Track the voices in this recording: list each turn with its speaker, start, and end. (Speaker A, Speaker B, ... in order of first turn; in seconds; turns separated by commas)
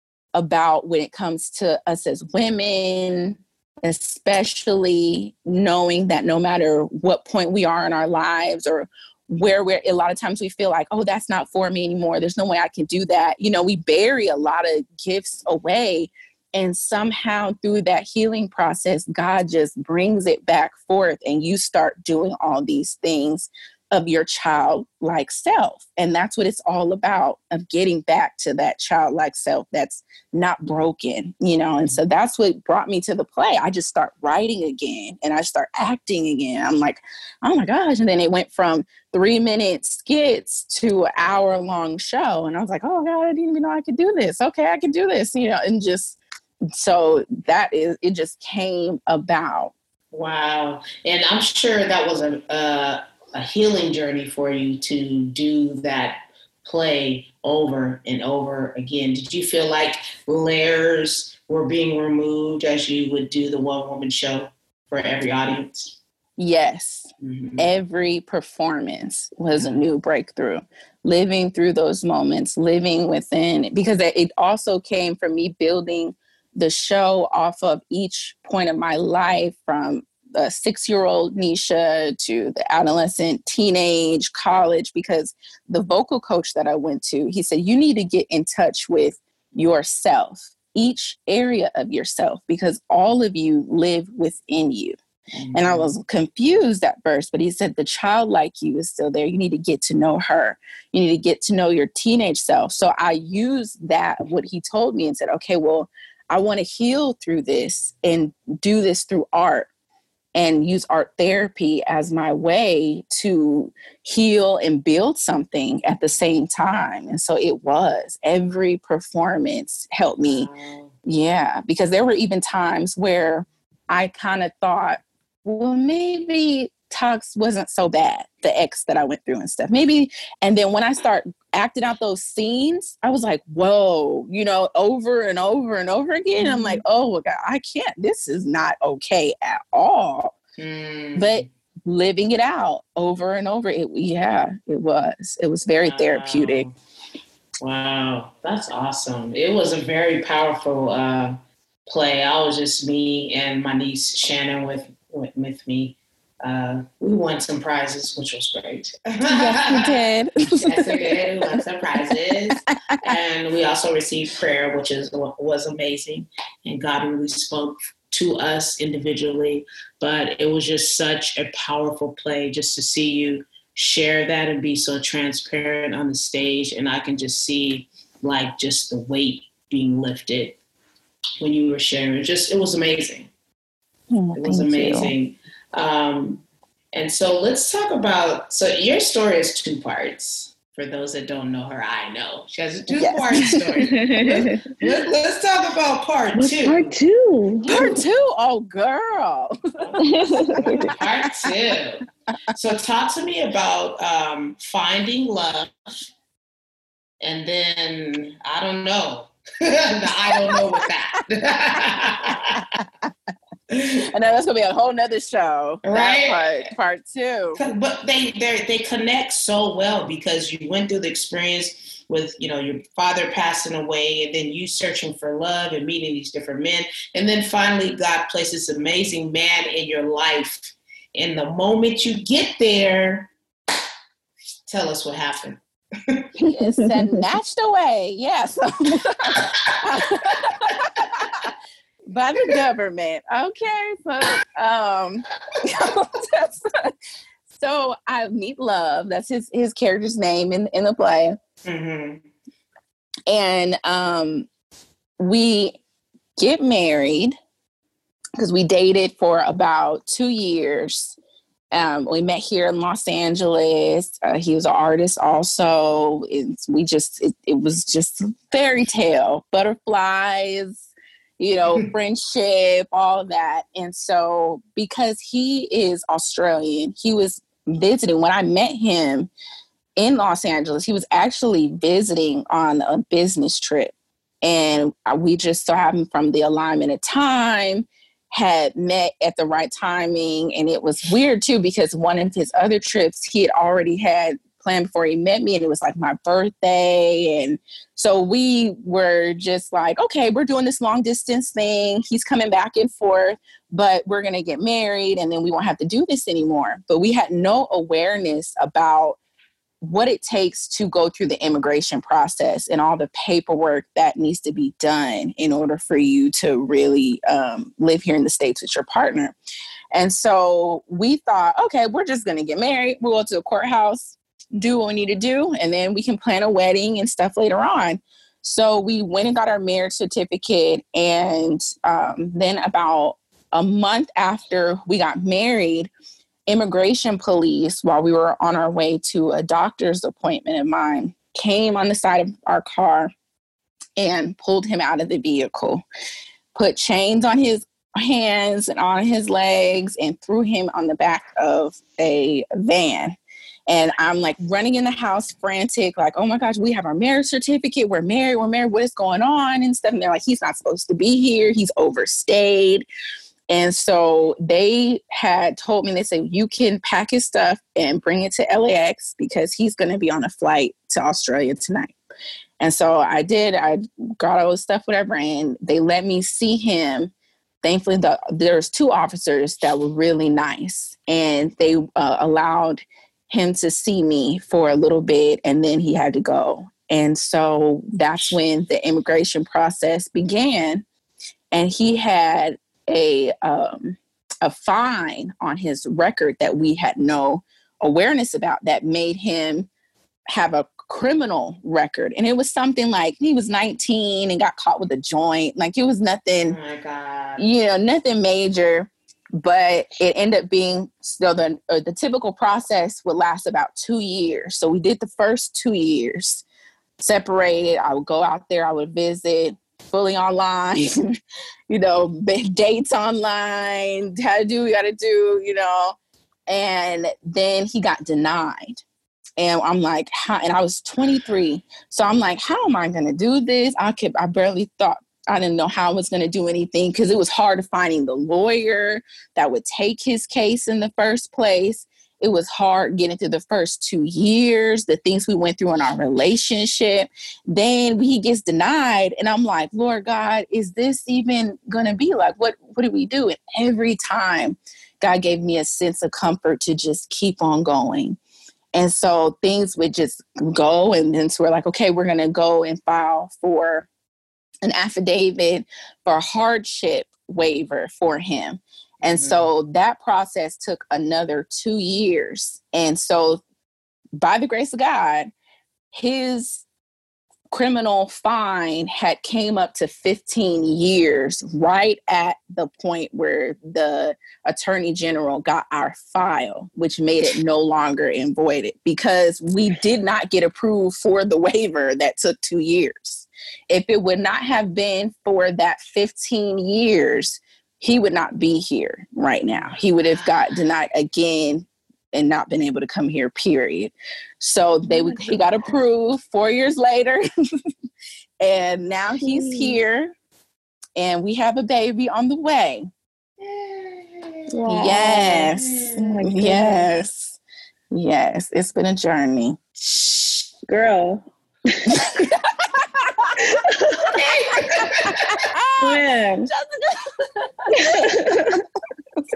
Speaker A: 0.3-46.2, Speaker A: 46.8-49.7, Speaker B: 50.1-66.0, Speaker A: 66.4-95.0, Speaker B: 67.2-67.7, Speaker B: 69.5-69.8, Speaker B: 95.3-95.9, Speaker A: 95.5-109.7, Speaker A: 110.3-120.5, Speaker B: 120.2-120.9, Speaker A: 121.0-140.4, Speaker B: 140.6-141.5, Speaker A: 141.2-146.7, Speaker B: 145.8-146.7, Speaker B: 147.6-160.0, Speaker A: 159.3-161.2, Speaker B: 160.6-180.6, Speaker A: 162.7-163.1, Speaker B: 181.4-183.3, Speaker A: 184.1-185.1, Speaker B: 184.3-196.9, Speaker A: 192.9-193.6, Speaker C: 193.7-194.6, Speaker C: 196.4-198.0, Speaker A: 197.7-201.5, Speaker B: 199.8-206.0, Speaker C: 200.0-200.9, Speaker B: 207.2-212.6, Speaker A: 210.4-210.8, Speaker A: 213.8-217.6, Speaker B: 215.8-216.7, Speaker B: 217.6-233.3, Speaker B: 234.7-236.3, Speaker A: 236.4-241.5, Speaker C: 236.8-237.2, Speaker B: 239.3-241.1, Speaker A: 242.1-246.9, Speaker A: 247.5-251.3, Speaker B: 251.6-252.2, Speaker A: 253.3-254.5, Speaker A: 255.2-255.8, Speaker A: 256.4-257.3, Speaker A: 258.4-261.2, Speaker A: 261.7-279.3, Speaker A: 280.0-309.2, Speaker A: 309.8-319.3, Speaker A: 319.9-335.9, Speaker A: 336.5-343.1, Speaker A: 344.0-345.8, Speaker A: 346.5-353.2, Speaker A: 353.7-362.9, Speaker A: 363.5-371.9, Speaker A: 372.6-377.1, Speaker A: 377.6-390.8, Speaker A: 391.5-399.7, Speaker A: 400.3-406.6, Speaker B: 406.4-407.5, Speaker A: 407.4-416.4, Speaker A: 417.0-421.1, Speaker A: 421.7-425.9, Speaker A: 426.5-428.8, Speaker A: 429.4-458.2, Speaker A: 458.7-463.9, Speaker A: 464.6-473.4, Speaker B: 469.0-469.5, Speaker A: 474.2-475.3, Speaker A: 475.9-476.6, Speaker A: 477.5-507.2, Speaker B: 499.6-500.3, Speaker C: 504.9-505.4, Speaker A: 508.4-510.1, Speaker C: 509.2-509.8, Speaker A: 510.9-512.9, Speaker B: 513.4-514.5, Speaker C: 514.5-516.9, Speaker A: 514.7-517.4, Speaker B: 515.3-516.2, Speaker A: 517.9-519.6, Speaker B: 519.8-520.4, Speaker C: 520.6-522.3, Speaker A: 522.0-523.5, Speaker C: 523.5-524.6, Speaker B: 524.1-525.4, Speaker A: 525.4-526.5, Speaker C: 525.8-526.2, Speaker C: 527.7-528.6, Speaker A: 527.7-528.6